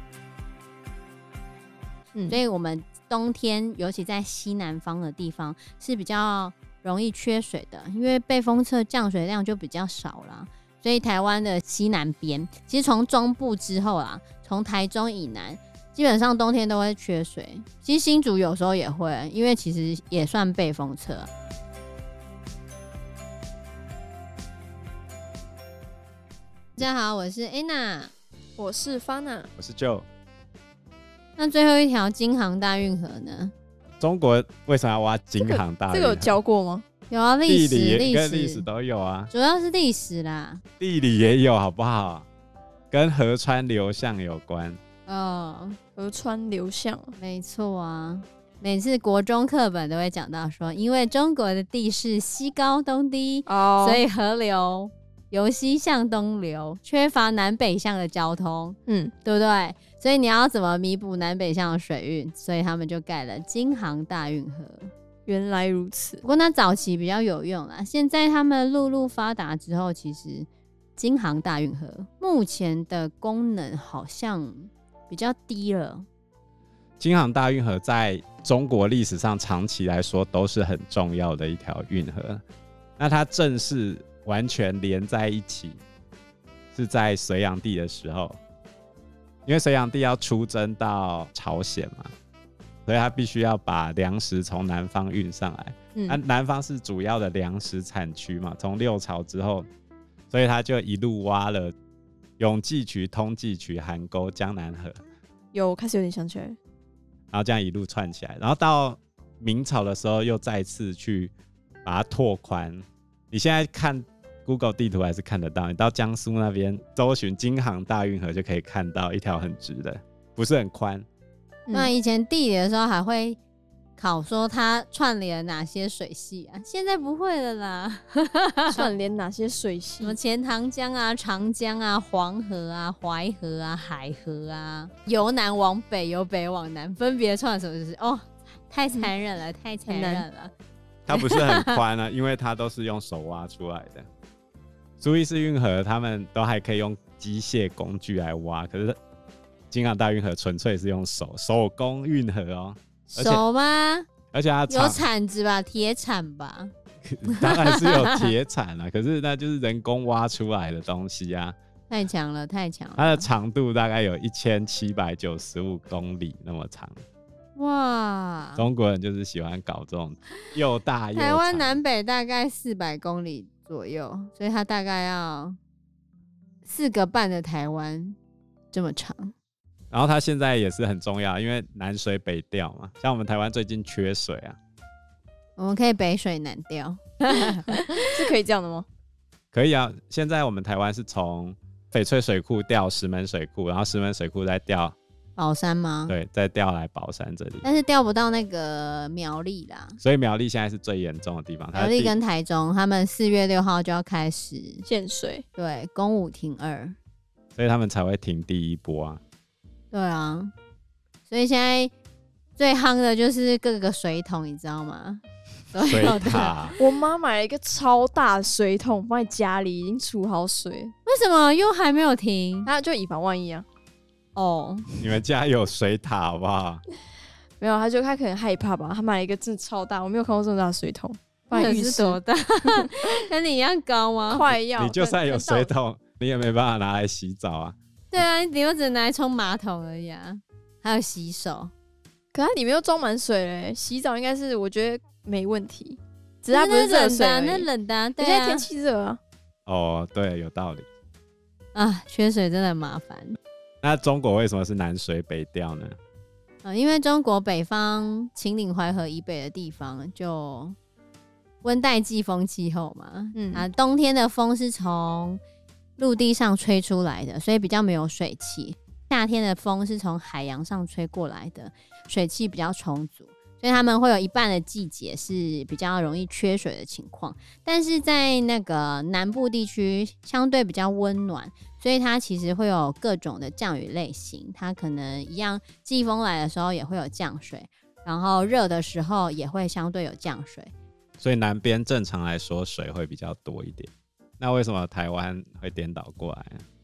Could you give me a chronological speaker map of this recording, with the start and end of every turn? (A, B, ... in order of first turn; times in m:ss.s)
0:02.1-0:02.4 A
0:02.3-0:21.3 B
0:26.8-0:28.1 B
0:28.6-0:29.5 A
0:29.6-0:30.0 C
0:31.4-0:33.5 B
0:34.0-0:36.4 C
0:35.4-0:36.8 A
0:37.1-0:38.7 B
0:37.4-0:39.3 C
0:39.3-0:40.6 B
0:40.8-0:42.2 C
0:42.9-0:44.8 C
0:45.0-0:45.8 B
0:46.0-0:47.1 A
0:47.2-1:04.9 B
0:53.4-0:54.0 A
0:58.9-0:59.1 A
1:05.2-1:06.2 A
1:06.2-1:16.0 B
1:17.0-1:22.4 C
1:23.0-1:25.8 C
1:26.7-1:28.4 C
1:29.4-1:32.1 C
1:32.8-1:39.7 C
1:40.3-1:41.7 C
1:42.4-1:45.0 C
1:45.5-1:46.6 A
1:47.3-1:51.3 C
1:51.8-2:01.0 C
2:01.7-2:01.9 A
2:01.7-2:03.4 B
2:04.0-2:08.9 B
2:08.7-2:10.2 A
2:10.0-2:20.5 B
2:19.9-2:20.2 A
2:21.0-2:24.0 C
2:21.1-2:21.8 B
2:25.0-2:29.0 C
2:29.7-2:33.4 C
2:33.1-2:34.1 B
2:34.3-2:35.0 C
2:34.7-2:36.7 B
2:37.0-2:41.5 C
2:37.3-2:38.3 B
2:41.9-2:43.3 B
2:43.0-2:46.9 C
2:47.6-2:48.7 B
2:48.6-2:51.8 C
2:51.1-2:55.6 B
2:56.6-2:58.2 B
2:58.7-2:59.3 B
2:59.9-3:04.6 C
3:05.6-3:07.8 B
3:07.8-3:08.8 A
3:09.5-3:14.9 C
3:15.4-3:16.2 B
3:16.1-3:17.6 C
3:17.6-3:20.0 B
3:20.0-3:22.2 C
3:21.7-3:24.8 B
3:24.8-3:25.4 A
3:25.5-3:27.0 B
3:27.6-3:29.2 C
3:29.9-3:30.5 B
3:31.3-3:31.9 B
3:32.6-3:36.6 B
3:35.8-3:36.8 C
3:36.8-3:40.9 A
3:41.0-3:42.7 B
3:42.6-3:43.6 A
3:44.3-3:45.0 B
3:45.0-3:46.8 C
3:47.6-3:52.2 A
3:51.5-3:54.5 B
3:54.3-3:55.7 A
3:54.8-3:58.2 C
3:58.1-4:01.7 B
4:02.3-4:09.2 A
4:06.5-4:08.7 B
4:09.7-4:10.8 C
4:11.7-4:13.4 B
4:13.8-4:16.0 C
4:16.6-4:20.8 B
4:21.6-4:25.4 B
4:23.3-4:23.7 A
4:26.0-4:50.7 B
4:51.2-4:56.6 C